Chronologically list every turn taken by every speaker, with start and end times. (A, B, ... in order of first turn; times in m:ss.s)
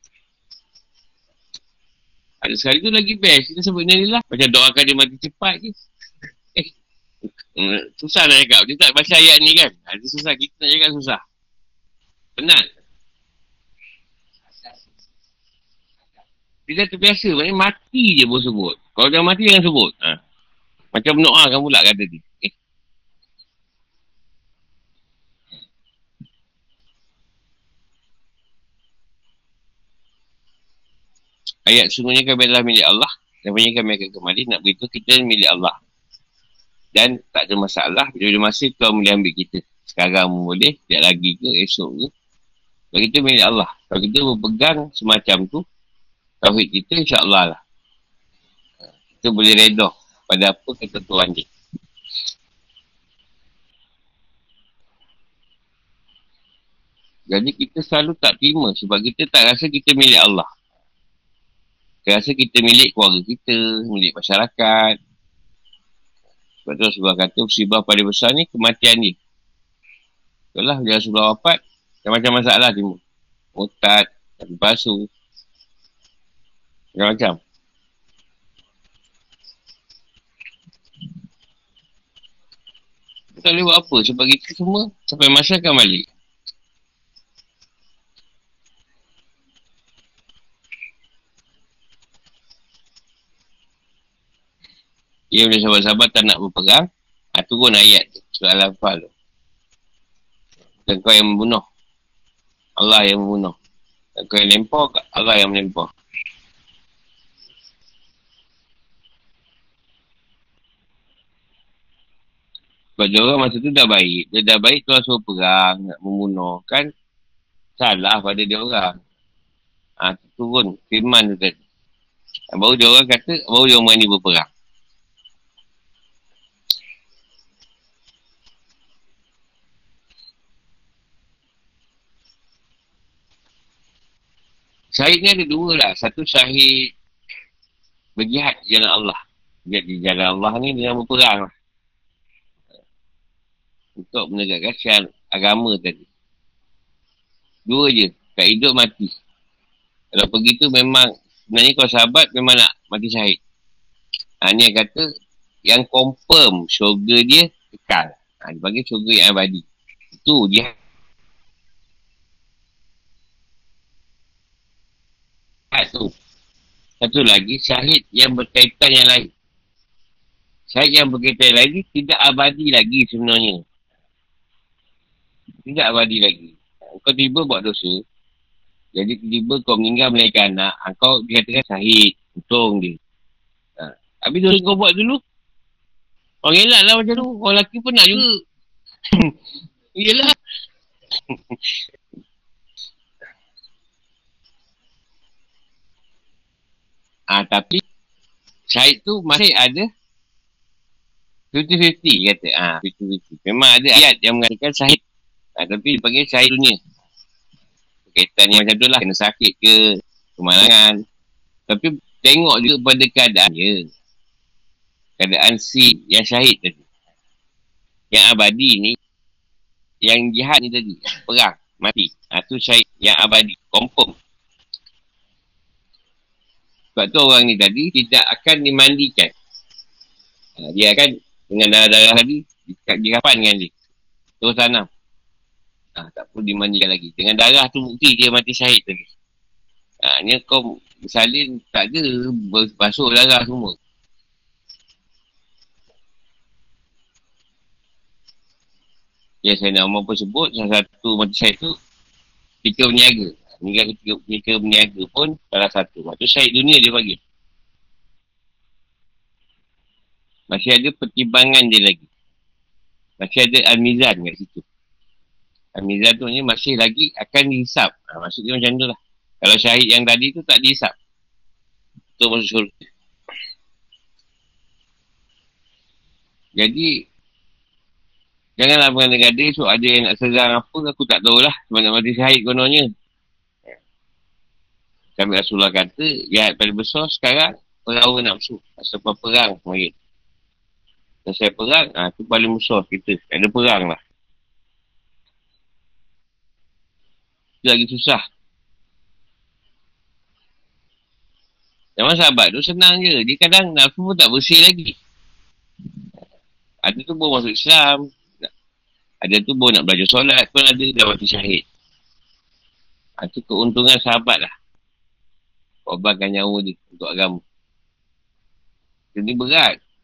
0:02.4-0:05.7 A
0:07.6-0:11.2 A
0:12.4-0:12.6 A
0:16.7-0:20.2 A
0:20.9-0:22.5 A
0:31.7-0:35.7 A
0:37.0-0:42.1 A
0:42.9-0:45.6 A
0:46.4-0:47.6 A
0:49.2-0:51.4 A
0:57.3-1:00.4 A
1:02.0-1:05.0 A
1:06.6-1:09.2 A
1:10.5-1:13.0 A
1:13.6-1:15.1 A
1:17.0-1:17.4 A
1:23.4-1:26.1 A
1:35.3-1:36.8 A
1:37.4-1:39.1 A
1:40.9-1:41.6 A
1:42.8-1:43.6 A
1:44.2-1:45.9 A
1:53.0-1:56.9 A
1:57.8-1:58.9 A
2:00.0-2:01.5 A
2:02.5-2:04.5 A
2:14.9-2:16.9 A
2:18.2-2:21.5 A
2:24.0-2:26.0 A
2:27.7-2:29.1 A
2:30.1-2:33.4 A
2:34.4-2:35.0 A
2:35.7-2:39.6 A
2:40.2-2:40.7 A
2:45.7-2:46.1 A
2:47.0-2:49.3 A
2:50.7-2:53.6 A
2:55.6-2:58.0 A
2:59.0-3:03.0 A
3:03.8-3:05.2 A
3:06.4-3:08.2 A
3:10.0-3:10.3 A
3:17.3-3:17.8 A
3:18.7-3:19.9 A
3:21.5-3:25.0 A
3:25.6-3:26.8 A
3:28.1-3:29.8 A
3:30.4-3:31.0 A
3:31.7-3:33.9 A
3:35.2-3:36.8 A
3:38.1-3:39.0 A
3:40.0-3:44.1 A
3:47.0-3:49.3 A
3:50.6-3:53.7 A
3:54.4-3:54.9 A
3:56.0-3:59.0 A
4:00.0-4:03.8 A
4:09.4-4:11.7 A
4:12.6-4:17.2 A
4:20.5-4:22.0 A
4:23.2-4:24.6 A
4:25.8-4:30.9 A
4:32.2-4:32.8 A
4:36.6-4:36.9 A
4:38.6-4:42.9 A
4:45.2-4:49.9 A
4:51.2-4:54.0 A
4:57.6-4:58.2 A
5:02.0-5:04.9 A
5:06.8-5:08.0 A
5:09.2-5:11.6 A
5:13.2-5:14.5 A
5:15.9-5:17.4 A
5:19.1-5:19.7 A